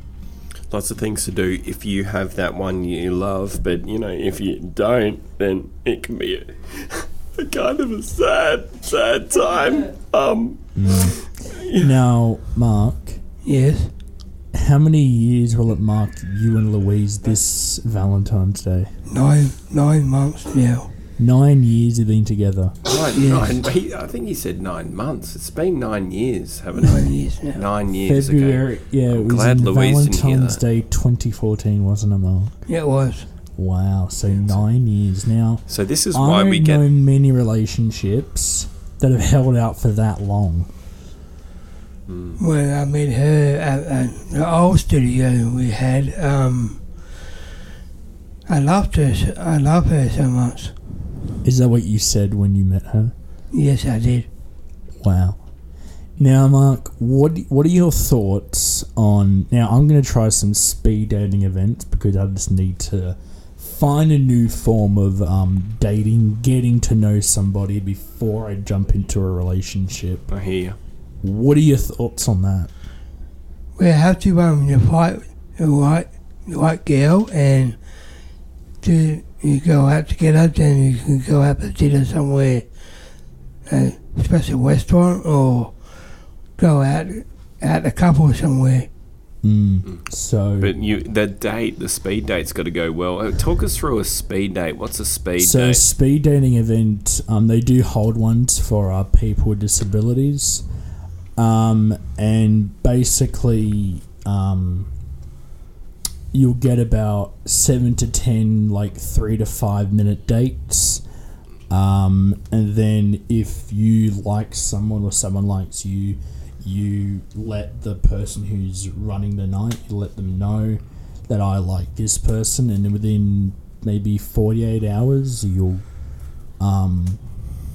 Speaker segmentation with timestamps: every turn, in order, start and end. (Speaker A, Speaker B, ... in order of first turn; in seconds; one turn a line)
Speaker A: 0.7-11.9
Speaker B: 10.8-13.2
Speaker C: 13.4-13.9
Speaker B: 14.5-18.9
Speaker C: 19.1-20.9
Speaker B: 21.2-22.8
Speaker A: 22.9-30.6
Speaker C: 23.1-23.6
Speaker C: 26.8-27.6
Speaker B: 28.0-32.5
Speaker C: 32.7-33.3
Speaker B: 33.6-40.7
Speaker A: 34.3-34.6
Speaker A: 35.7-36.9
Speaker A: 42.1-42.4
Speaker C: 42.4-46.9
Speaker C: 48.5-50.7
Speaker B: 51.4-53.1
Speaker C: 53.5-54.3
Speaker B: 55.0-55.4
Speaker B: 56.2-70.2
Speaker A: 70.3-70.8
Speaker B: 71.2-72.7
Speaker C: 73.8-77.8
Speaker C: 78.8-82.7
Speaker C: 83.7-85.8
Speaker C: 86.6-88.9
Speaker B: 89.4-90.7
Speaker A: 90.6-95.8
Speaker B: 95.4-100.6
Speaker B: 101.4-104.9
Speaker B: 106.3-111.0
Speaker B: 111.7-125.8
Speaker B: 126.6-127.2